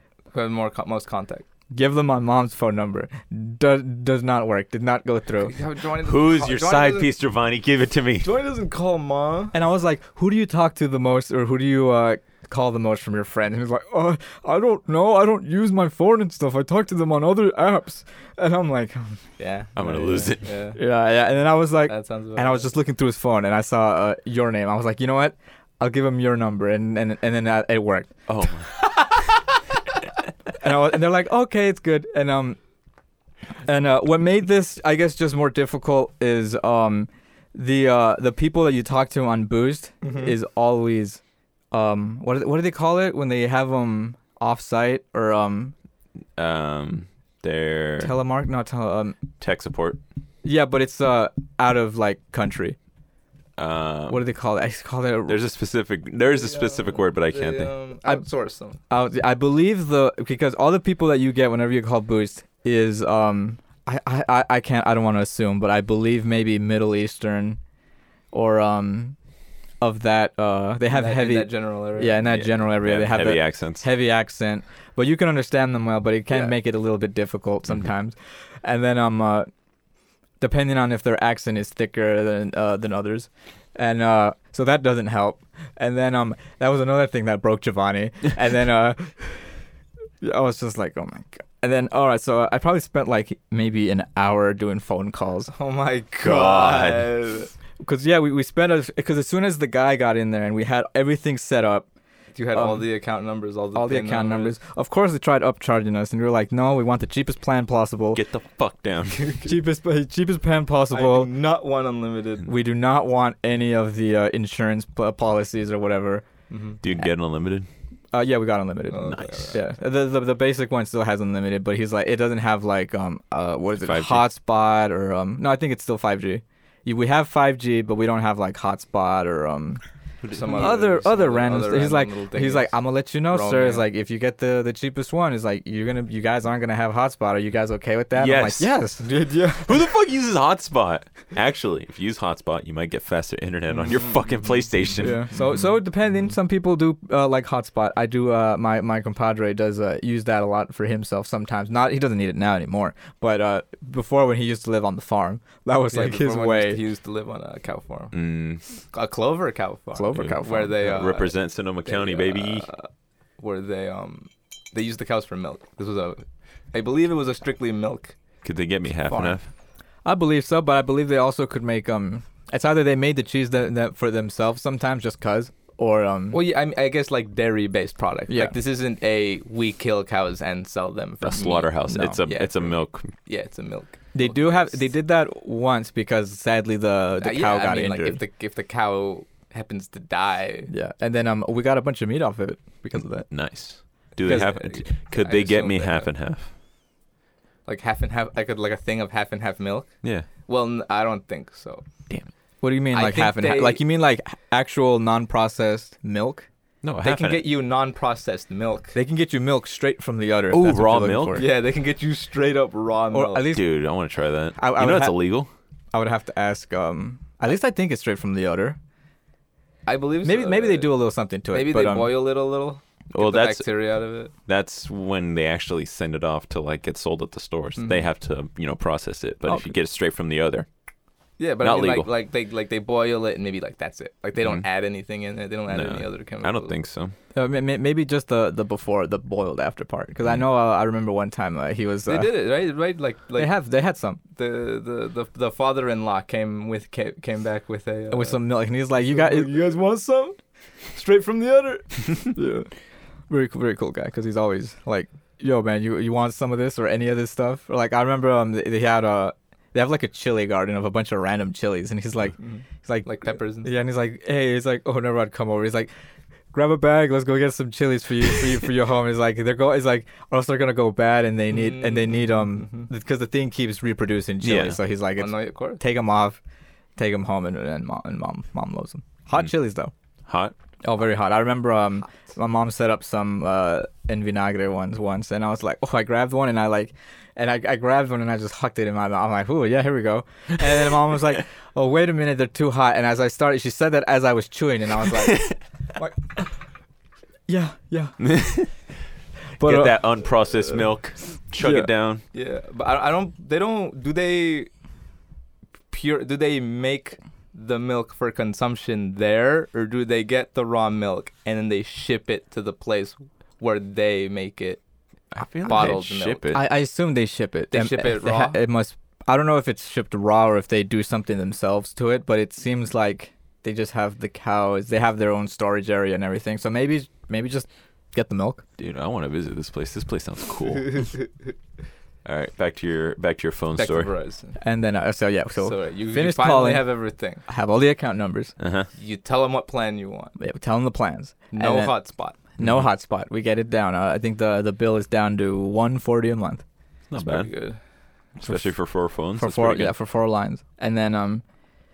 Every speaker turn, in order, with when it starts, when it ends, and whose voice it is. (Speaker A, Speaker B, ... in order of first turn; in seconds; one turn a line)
Speaker A: 0.3-1.5
Speaker B: 1.7-5.5
Speaker A: 5.4-7.1
Speaker C: 6.0-8.3
Speaker A: 8.2-9.5
Speaker B: 9.5-19.2
Speaker A: 19.4-20.8
Speaker C: 19.8-20.5
Speaker B: 20.7-28.1
Speaker A: 21.9-22.7
Speaker C: 28.3-28.8
Speaker B: 30.6-32.6
Speaker B: 33.6-41.2
Speaker A: 40.0-40.3
Speaker B: 41.7-45.7
Speaker C: 46.4-48.1
Speaker B: 48.0-49.2
Speaker C: 49.4-50.0
Speaker B: 50.4-52.8
Speaker C: 53.6-54.2
Speaker B: 54.1-55.4
Speaker C: 55.3-57.7
Speaker A: 56.3-58.8
Speaker B: 58.9-67.6
Speaker B: 68.3-69.2
Speaker B: 69.8-79.5
Speaker A: 70.9-72.2
Speaker C: 72.3-73.8
Speaker B: 80.4-89.4
Speaker B: 90.2-95.5
Speaker A: 95.5-97.5
Speaker C: 96.2-97.1
Speaker B: 97.8-101.9
Speaker A: 102.3-104.5
Speaker B: 102.5-102.8
Speaker B: 103.7-108.2
Speaker C: 108.1-109.3
Speaker A: 109.2-109.5
Speaker B: 109.4-111.3
Speaker A: 110.9-112.5
Speaker B: 112.4-116.2
Speaker A: 116.5-116.8
Speaker C: 116.8-117.7
Speaker B: 118.1-129.8
Speaker A: 118.9-119.6
Speaker C: 119.1-119.6
Speaker C: 123.8-124.2
Speaker C: 130.2-130.7
Speaker A: 130.3-133.8
Speaker B: 130.5-139.9
Speaker C: 138.1-138.7
Speaker C: 139.6-145.3
Speaker B: 145.0-156.8
Speaker A: 155.9-158.2
Speaker C: 158.1-158.6
Speaker A: 158.9-168.2
Speaker B: 159.9-160.7
Speaker C: 160.2-162.7
Speaker C: 168.4-169.5
Speaker A: 169.0-169.4
Speaker B: 170.0-176.4
Speaker A: 176.3-184.8
Speaker B: 178.3-178.5
Speaker C: 181.2-183.1
Speaker B: 181.9-182.2
Speaker B: 184.1-188.2
Speaker A: 187.2-190.7
Speaker B: 190.7-193.3
Speaker C: 193.3-196.5
Speaker A: 194.2-196.1
Speaker A: 197.7-199.9
Speaker C: 200.0-200.3
Speaker A: 200.4-201.8
Speaker B: 202.6-206.5
Speaker A: 202.9-203.8
Speaker C: 206.8-207.4
Speaker A: 207.0-208.9
Speaker B: 208.9-211.5
Speaker C: 210.5-211.4
Speaker A: 211.3-213.5
Speaker B: 213.1-213.6
Speaker C: 213.5-215.5
Speaker B: 214.6-215.2
Speaker B: 215.9-218.8
Speaker A: 219.8-220.9
Speaker B: 220.2-222.1
Speaker A: 221.5-224.3
Speaker C: 223.1-223.7
Speaker C: 224.4-230.7
Speaker A: 227.8-228.1
Speaker B: 229.5-229.7
Speaker A: 231.4-236.7
Speaker C: 231.6-232.1
Speaker C: 234.4-234.7
Speaker C: 235.7-237.1
Speaker B: 237.3-242.3
Speaker A: 242.1-243.5
Speaker B: 243.3-244.2
Speaker A: 244.3-248.4
Speaker B: 248.1-249.7
Speaker A: 249.1-250.4
Speaker A: 250.9-252.3
Speaker B: 252.3-252.7
Speaker B: 253.3-265.9
Speaker A: 262.4-263.7
Speaker B: 266.5-276.4
Speaker A: 271.5-272.9
Speaker C: 274.4-274.8
Speaker A: 275.2-275.8
Speaker B: 277.0-279.9
Speaker C: 280.2-280.5
Speaker B: 280.8-296.1
Speaker B: 297.5-298.6
Speaker C: 298.2-298.7
Speaker B: 299.6-299.9
Speaker C: 299.6-302.2
Speaker B: 301.6-301.9
Speaker A: 302.3-304.7
Speaker A: 305.9-314.8
Speaker C: 315.3-316.6
Speaker A: 315.6-316.6
Speaker B: 316.5-328.6
Speaker A: 317.7-318.6
Speaker C: 328.8-331.1
Speaker C: 332.2-334.1
Speaker A: 333.8-334.6
Speaker B: 334.6-336.9
Speaker A: 335.6-337.4
Speaker B: 337.4-338.5
Speaker C: 338.6-338.9
Speaker A: 338.9-340.3
Speaker B: 340.4-341.9
Speaker A: 341.5-342.4
Speaker B: 342.5-346.6
Speaker C: 342.6-342.9
Speaker C: 347.1-347.5
Speaker A: 347.1-347.8
Speaker C: 348.4-349.9
Speaker B: 348.4-348.7
Speaker B: 349.3-351.4